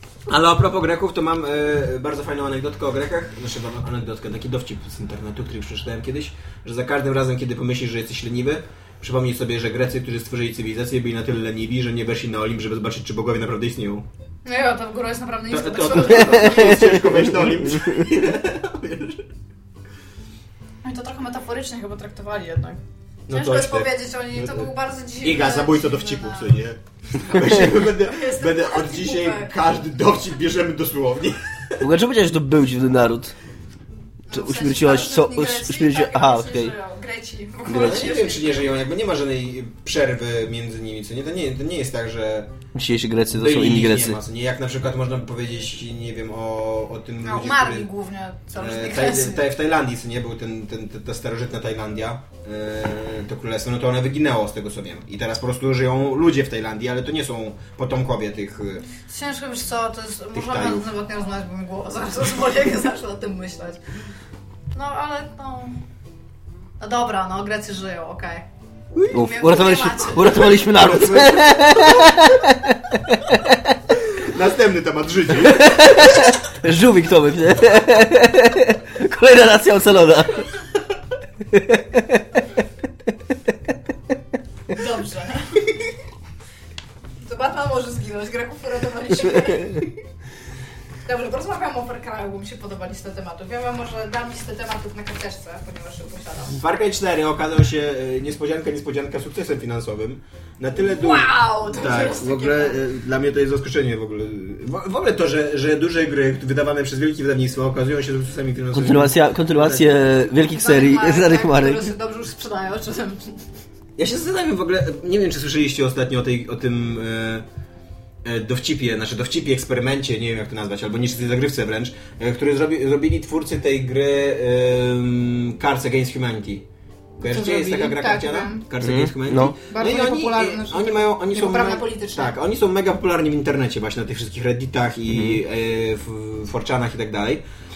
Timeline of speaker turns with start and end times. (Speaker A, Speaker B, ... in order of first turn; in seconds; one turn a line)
Speaker A: 0.3-14.0
Speaker B: 14.4-16.9
Speaker A: 15.5-19.2
Speaker C: 16.4-17.2
Speaker B: 20.8-22.8
Speaker A: 23.3-24.7
Speaker B: 23.3-26.6
Speaker A: 25.2-31.8
Speaker B: 27.5-29.5
Speaker C: 31.8-33.3
Speaker B: 34.3-38.7
Speaker C: 34.3-36.7
Speaker C: 37.7-38.1
Speaker A: 37.7-42.5
Speaker C: 42.7-44.2
Speaker A: 43.3-47.9
Speaker B: 47.2-49.4
Speaker A: 48.6-58.8
Speaker B: 59.0-63.8
Speaker A: 60.3-60.9
Speaker B: 64.7-65.8
Speaker B: 66.8-68.5
Speaker C: 69.0-73.5
Speaker B: 69.1-70.4
Speaker A: 70.4-72.1
Speaker A: 74.0-76.1
Speaker C: 75.5-80.5
Speaker C: 81.5-82.2
Speaker B: 84.7-85.6
Speaker B: 87.2-90.0
Speaker B: 91.0-96.6
Speaker A: 96.6-109.9
Speaker B: 100.8-102.8
Speaker C: 108.7-111.9
Speaker B: 110.4-113.3
Speaker A: 114.0-117.5
Speaker A: 118.2-126.6
Speaker A: 127.2-137.4
Speaker B: 127.2-128.6
Speaker C: 128.8-129.5
Speaker B: 129.7-132.3
Speaker C: 135.1-135.4